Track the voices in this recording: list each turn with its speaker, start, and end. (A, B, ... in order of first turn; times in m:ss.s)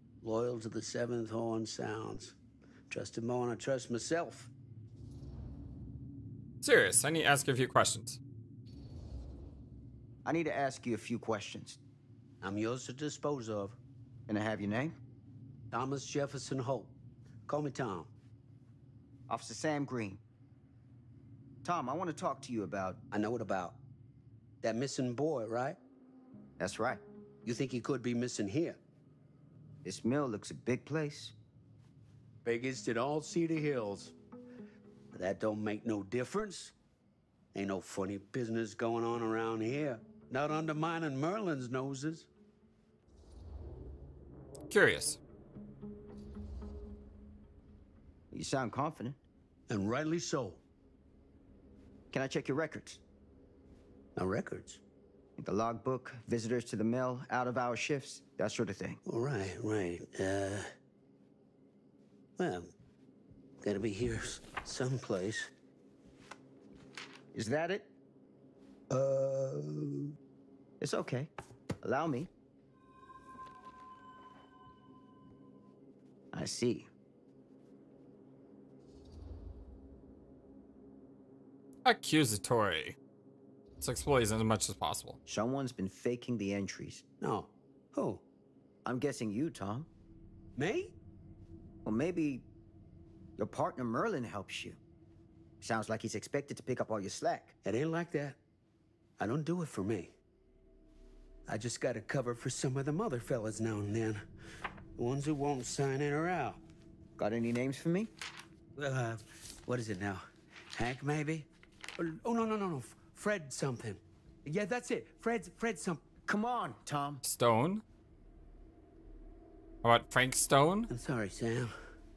0:00.2-0:02.4 A
0:02.9-0:04.5 A
0:06.6-0:08.2 B
0:10.2-0:11.8 C
0:12.4-0:13.8 A
0:14.3-0:15.0 C
0:15.7-0:16.9 A
0:17.5-0:18.1 A
0:19.3-0:20.2 C
0:21.6-0:23.0 C
0:23.1-0:23.8 A
0:24.6-0:25.8 A
0:26.6-0:27.0 C
0:27.4-0:28.8 A
0:29.8-0:31.3 C
0:32.4-0:34.1 A
0:35.1-0:36.7 A
0:37.5-0:42.3 A
0:44.7-0:45.2 B
0:48.3-0:49.2 C
0:49.7-0:50.6 A
0:52.1-0:53.0 C
0:54.2-0:54.8 A
0:55.4-0:59.0 C
0:59.0-1:00.7 A
1:02.4-1:02.7 A
1:03.6-1:05.5 A
1:07.3-1:07.9 C
1:08.9-1:10.2 A
1:10.8-1:11.3 C
1:11.8-1:12.3 C
1:16.3-1:16.9 C
1:21.8-1:23.0 B
1:23.8-1:25.2 B
1:25.3-1:27.0 C
1:27.2-1:28.2 A
1:28.8-1:29.9 C
1:30.6-1:30.9 A
1:31.8-1:32.5 C
1:33.4-1:34.8 C
1:35.6-1:37.6 C
1:37.6-1:38.4 A
1:39.2-1:40.1 A
1:41.5-1:44.2 A
1:45.0-1:46.6 A
1:47.2-1:48.1 C
1:48.8-1:56.0 A
1:56.3-1:57.2 C
1:57.2-1:57.8 B
1:59.8-2:00.9 B
2:00.9-2:01.7 A